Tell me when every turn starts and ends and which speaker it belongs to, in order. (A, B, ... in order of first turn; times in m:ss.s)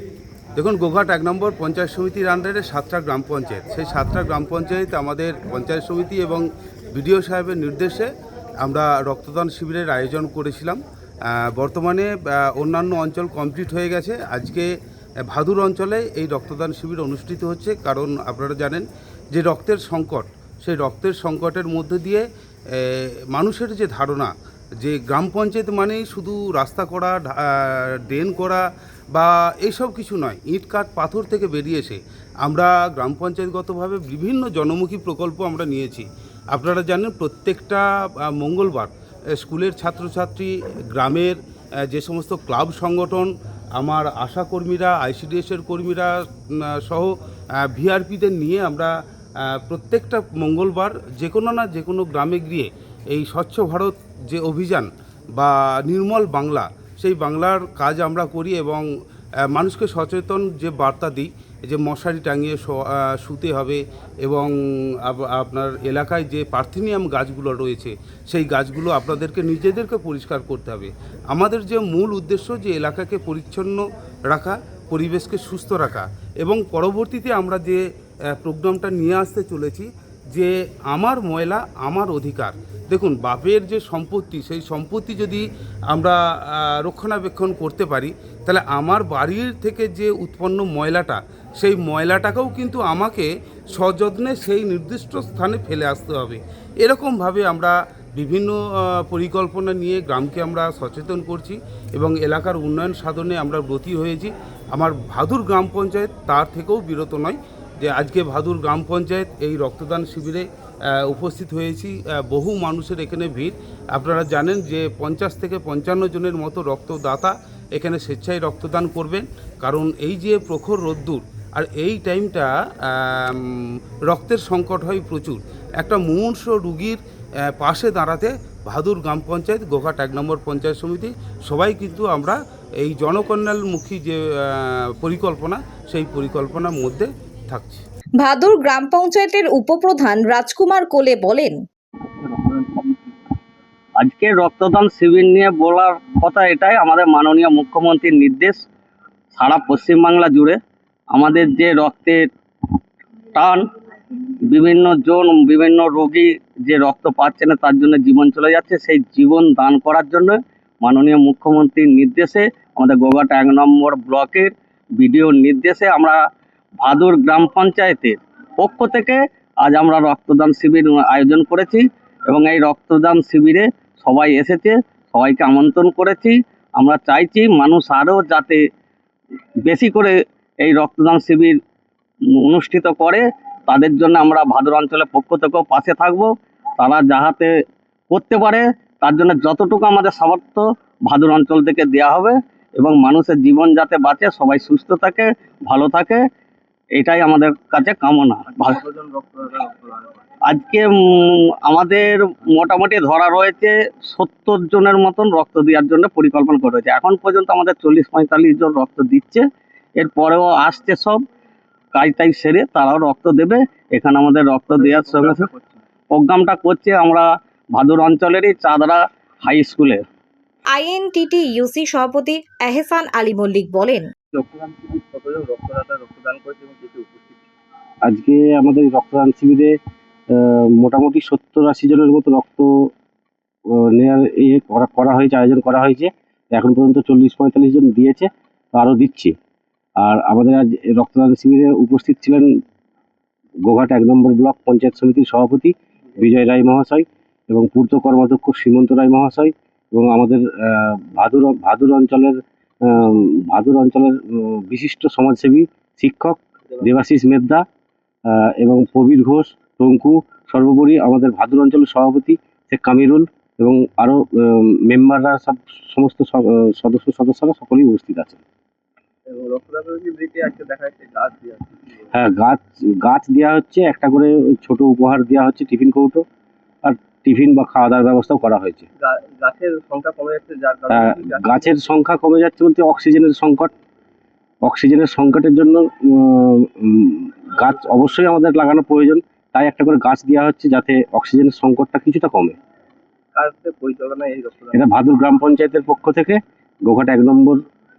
0:00.6-0:08.1 A
0:08.6-0:10.8 A
0:11.5-0:14.7 A
0:15.3-0:22.2 A
0:22.8-0:24.3 A
0:24.8-0:37.8 A
0:38.4-0:41.4 A
0:41.9-0:46.1 A
0:46.8-0:47.1 A
0:47.7-0:48.9 A
0:49.5-0:58.8 A
0:59.5-1:04.5 A
1:05.1-1:17.8 A
1:18.4-1:38.6 A
1:39.1-1:50.4 A
1:51.0-2:03.6 A
2:04.1-2:07.0 A
2:07.6-2:17.8 A
2:18.2-2:21.6 B
2:22.2-2:23.1 C
2:24.0-2:28.6 D
2:29.3-2:30.6 D
2:31.1-2:32.3 D
2:33.3-2:33.6 D
2:34.4-2:46.2 D
2:46.8-2:58.6 D
2:59.6-3:01.6 D
3:02.3-3:07.5 D
3:08.1-3:16.2 D
3:17.0-3:18.8 D
3:18.5-3:20.2 C
3:20.5-3:29.4 D
3:30.0-3:31.2 D
3:31.9-3:35.5 D
3:34.8-3:35.8 C
3:36.1-3:40.0 D
3:40.7-3:44.0 B
3:44.3-3:47.4 C
3:48.0-3:49.8 E
3:50.3-3:52.9 E
3:53.7-3:59.4 E
4:00.0-4:02.6 E
4:03.6-4:17.6 E
4:18.3-4:28.4 E
4:29.3-4:32.0 C
4:32.1-4:36.2 E
4:36.8-4:38.8 E
4:39.0-4:41.8 C
4:40.9-4:43.7 E
4:44.6-4:52.6 E
4:53.3-4:54.9 C
4:54.7-4:57.6 E